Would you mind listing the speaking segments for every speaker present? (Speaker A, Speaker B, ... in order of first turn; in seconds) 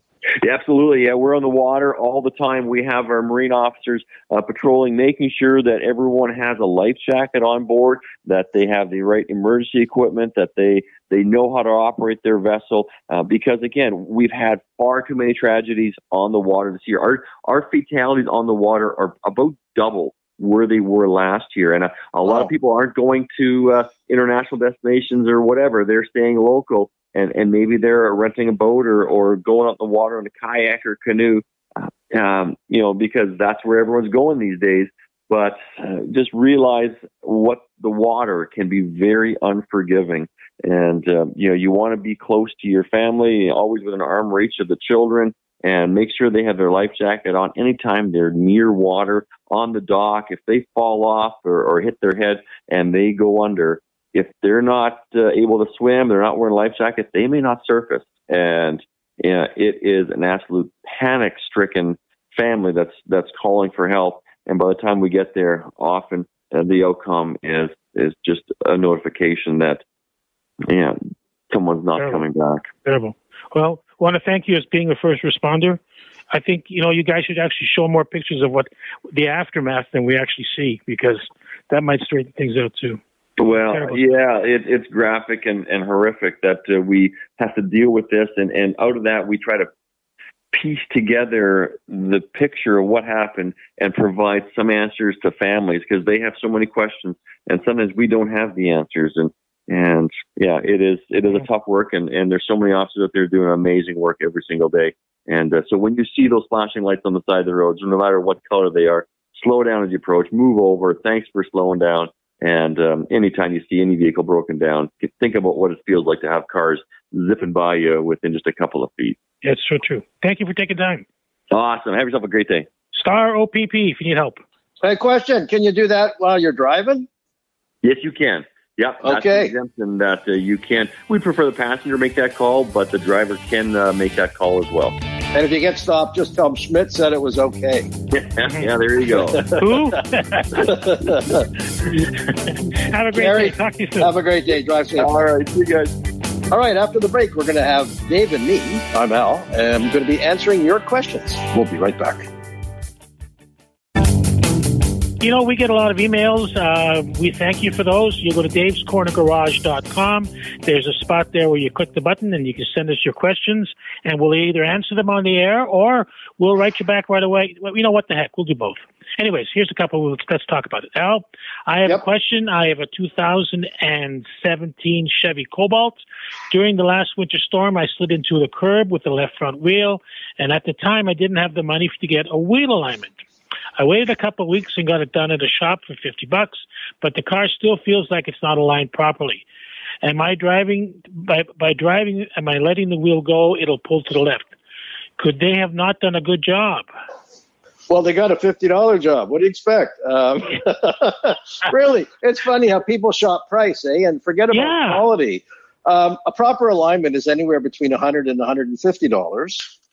Speaker A: 0.4-69.8, 70.7-71.0, 71.5-72.7, 83.4-89.7, 90.5-119.2, 121.5-122.7, 127.8-135.0, 138.1-139.5, 144.9-145.9
Speaker B: 22.2-22.5, 124.8-127.1, 129.0-129.5, 135.3-137.9, 139.3-140.0, 140.5-141.5, 143.1-145.1, 146.5-152.3, 197.9-209.7
Speaker C: 72.8-75.8, 76.3-83.0, 83.7-84.0, 119.4-121.0, 122.9-124.4, 139.5-140.8, 141.8-144.1, 155.2-183.2, 183.8-189.4, 190.0-194.5, 195.2-196.9, 204.5-205.0